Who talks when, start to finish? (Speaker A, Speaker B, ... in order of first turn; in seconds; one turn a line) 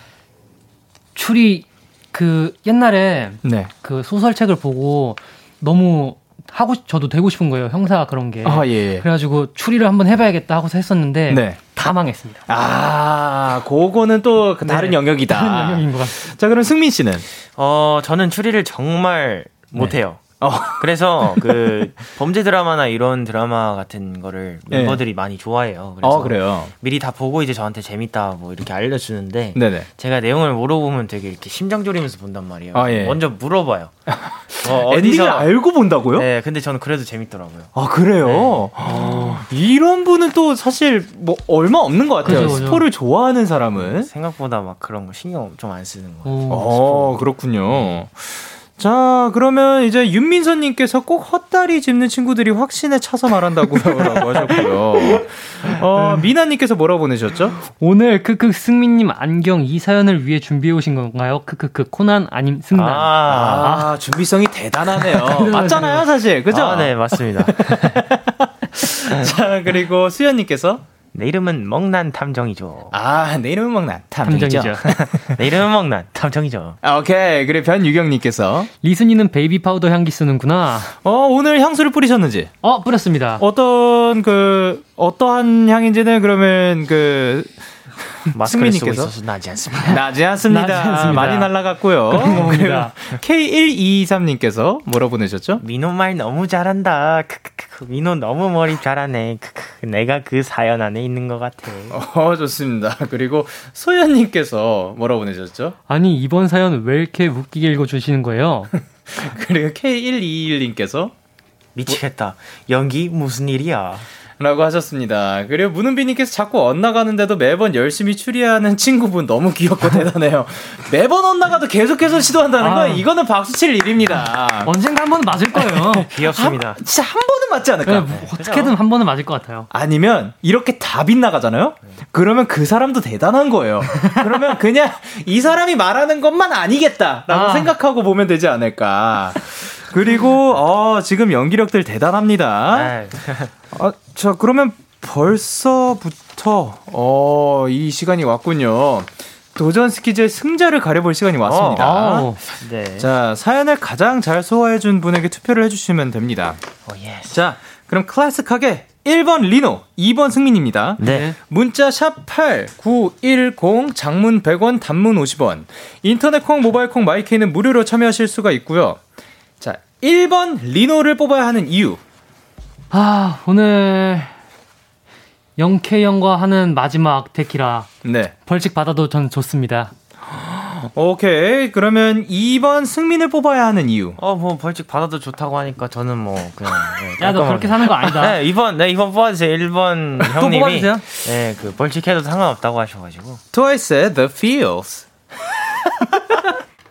Speaker A: 1.1-12.4
Speaker B: 3.4-3.7
Speaker B: 8.4-9.0
Speaker B: 11.3-11.9
Speaker B: 12.5-17.3
Speaker A: 14.6-16.2
Speaker C: 17.6-33.9
Speaker B: 20.4-21.9
Speaker B: 24.7-25.0
Speaker B: 26.0-26.7
Speaker B: 29.5-29.9
Speaker B: 32.7-33.2
Speaker B: 34.1-36.3
Speaker C: 34.6-35.5
Speaker C: 36.1-38.6
Speaker B: 37.7-44.1
Speaker A: 38.9-39.4
Speaker C: 42.2-42.7
Speaker A: 42.2-42.8
Speaker C: 43.8-48.0
Speaker A: 46.2-46.6
Speaker B: 46.5-57.6
Speaker A: 57.7-63.9
Speaker C: 62.7-63.7
Speaker B: 63.3-70.8
Speaker A: 64.9-66.0
Speaker C: 66.5-68.0
Speaker C: 71.1-72.9
Speaker B: 72.9-75.3
Speaker A: 74.2-74.9
Speaker C: 75.2-76.8
Speaker B: 76.8-78.7
Speaker A: 78.8-81.0
Speaker B: 81.0-82.5
Speaker A: 82.6-83.4
Speaker B: 83.4-87.6
Speaker B: 88.2-89.1
Speaker C: 88.3-90.0
Speaker B: 89.8-95.6
Speaker A: 90.5-91.5
Speaker A: 92.1-92.9
Speaker C: 95.6-102.0
Speaker B: 101.9-105.7
Speaker A: 105.9-108.7
Speaker B: 109.1-111.1
Speaker C: 111.7-114.1
Speaker B: 114.4-124.7
Speaker A: 122.6-123.0
Speaker A: 124.2-126.1
Speaker B: 125.5-128.1
Speaker C: 126.1-126.8
Speaker A: 127.8-129.7
Speaker C: 128.1-128.7
Speaker B: 129.7-142.9
Speaker A: 137.3-137.7
Speaker C: 142.7-143.5
Speaker B: 143.7-152.3
Speaker C: 151.4-151.9
Speaker A: 151.8-152.4
Speaker C: 152.5-153.1
Speaker B: 153.0-156.6
Speaker C: 156.8-157.4
Speaker B: 157.3-169.0
Speaker C: 161.0-161.3
Speaker A: 161.0-161.4
Speaker B: 169.6-172.0
Speaker A: 172.9-174.3
Speaker A: 175.6-177.9
Speaker B: 178.0-178.3
Speaker A: 178.4-179.9
Speaker B: 180.3-184.2
Speaker C: 184.2-193.4
Speaker A: 187.2-188.4
Speaker A: 190.3-191.0
Speaker B: 193.5-196.5